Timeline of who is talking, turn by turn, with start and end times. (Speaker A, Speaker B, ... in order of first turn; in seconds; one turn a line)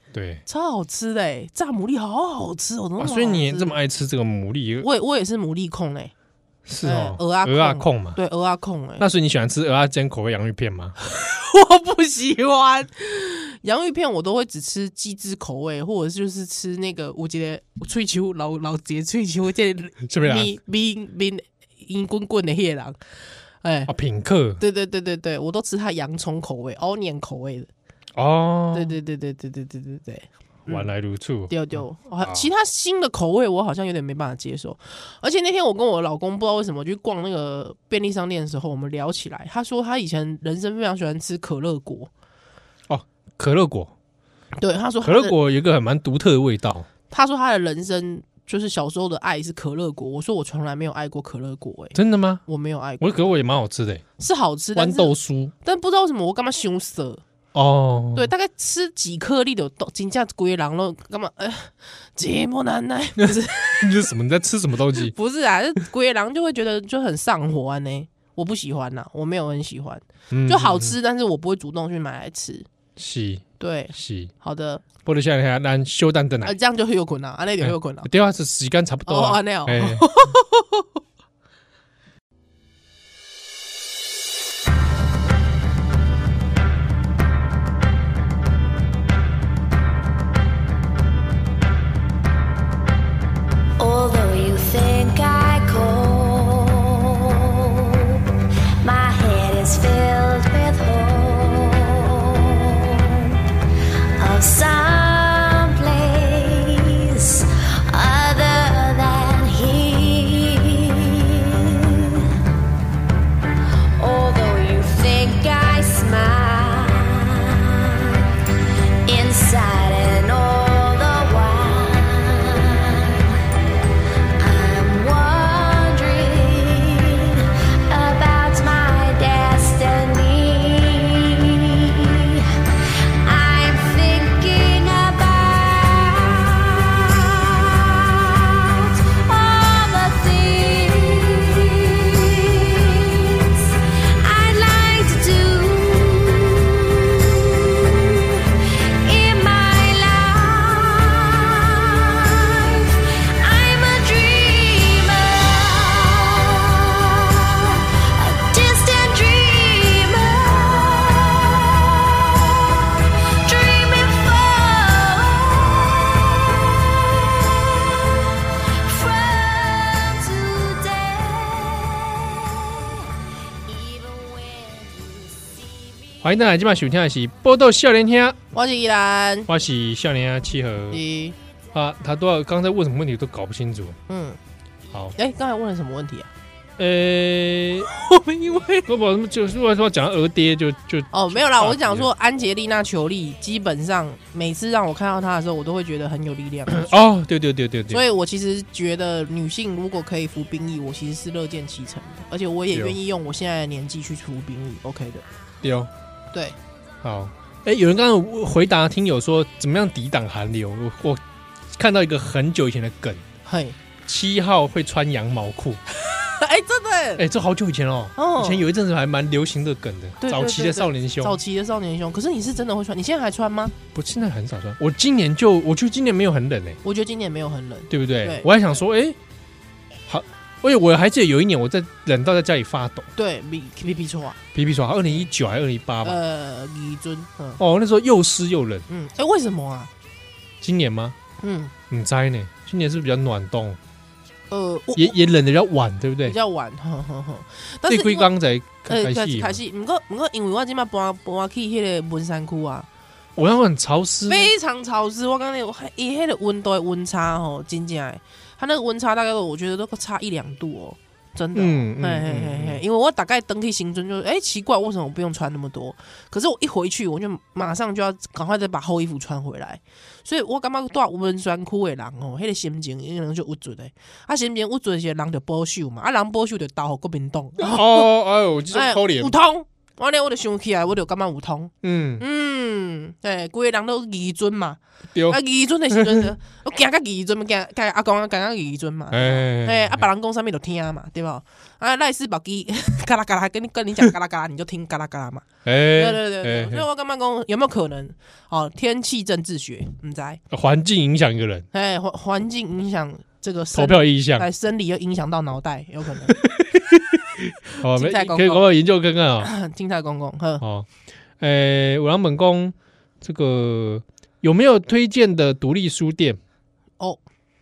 Speaker A: 0.1-0.4
Speaker B: 0.5-3.8
Speaker A: 3.0-4.9
Speaker B: 4.8-6.1
Speaker A: 6.7-8.2
Speaker B: 6.8-9.1
Speaker A: 9.0-10.9
Speaker B: 11.0-23.0
Speaker A: 20.0-20.5
Speaker B: 23.6-23.9
Speaker A: 23.9-24.6
Speaker B: 24.6-27.7
Speaker A: 28.1-28.9
Speaker B: 28.7-30.9
Speaker A: 30.7-32.5
Speaker B: 31.5-42.1
Speaker A: 42.9-43.9
Speaker B: 44.6-45.4
Speaker A: 45.0-46.9
Speaker B: 47.1-53.3
Speaker A: 51.9-52.4
Speaker A: 53.0-54.0
Speaker B: 54.2-57.2
Speaker A: 54.8-55.5
Speaker A: 57.5-58.3
Speaker B: 58.1-64.1
Speaker A: 63.2-65.1
Speaker B: 64.9-72.7
Speaker A: 70.3-70.9
Speaker A: 73.0-74.3
Speaker B: 73.6-74.8
Speaker A: 75.0-76.5
Speaker B: 76.4-78.1
Speaker A: 77.6-80.1
Speaker B: 79.1-80.9
Speaker C: 93.8-98.2
Speaker C: 98.8-103.4
Speaker C: 104.2-112.4
Speaker C: 114.0-118.3
Speaker C: 119.0-123.3
Speaker C: 124.4-176.2
Speaker A: 176.2-178.4
Speaker B: 178.5-179.5
Speaker A: 179.5-181.0
Speaker B: 180.9-181.3
Speaker A: 181.7-184.0
Speaker B: 184.1-184.4
Speaker B: 185.2-186.3
Speaker A: 186.8-187.9
Speaker B: 187.9-188.9
Speaker A: 188.8-192.1
Speaker B: 191.1-196.9
Speaker A: 196.7-198.0
Speaker B: 197.9-205.2
Speaker A: 202.7-203.0
Speaker A: 205.6-205.9
Speaker A: 207.0-211.2
Speaker A: 211.7-213.2
Speaker B: 213.4-213.8
Speaker A: 214.0-215.8
Speaker B: 216.1-217.2
Speaker A: 217.2-221.4
Speaker B: 218.2-218.7
Speaker B: 220.2-223.7
Speaker A: 223.9-226.8
Speaker B: 226.8-228.5
Speaker A: 227.9-229.2
Speaker A: 230.1-233.1
Speaker B: 233.2-234.4
Speaker A: 234.5-236.2
Speaker B: 236.0-237.6
Speaker A: 237.6-238.9
Speaker B: 238.9-239.9
Speaker A: 240.6-241.2
Speaker B: 241.4-241.7
Speaker A: 241.9-243.8
Speaker B: 244.5-245.2
Speaker A: 244.9-246.4
Speaker B: 246.2-248.3
Speaker A: 247.9-249.6
Speaker B: 248.8-252.9
Speaker A: 253.3-254.5
Speaker B: 254.3-278.1
Speaker A: 261.5-262.8
Speaker A: 277.6-279.3
Speaker B: 278.7-300.4
Speaker A: 281.8-282.2
Speaker A: 285.9-286.3
Speaker A: 289.1-290.1
Speaker A: 295.6-296.9
Speaker A: 300.5-301.7
Speaker B: 301.7-306.4
Speaker A: 303.7-304.4
Speaker A: 306.3-309.5
Speaker B: 307.7-308.7
Speaker B: 309.4-310.6
Speaker A: 310.6-310.9
Speaker A: 311.4-316.4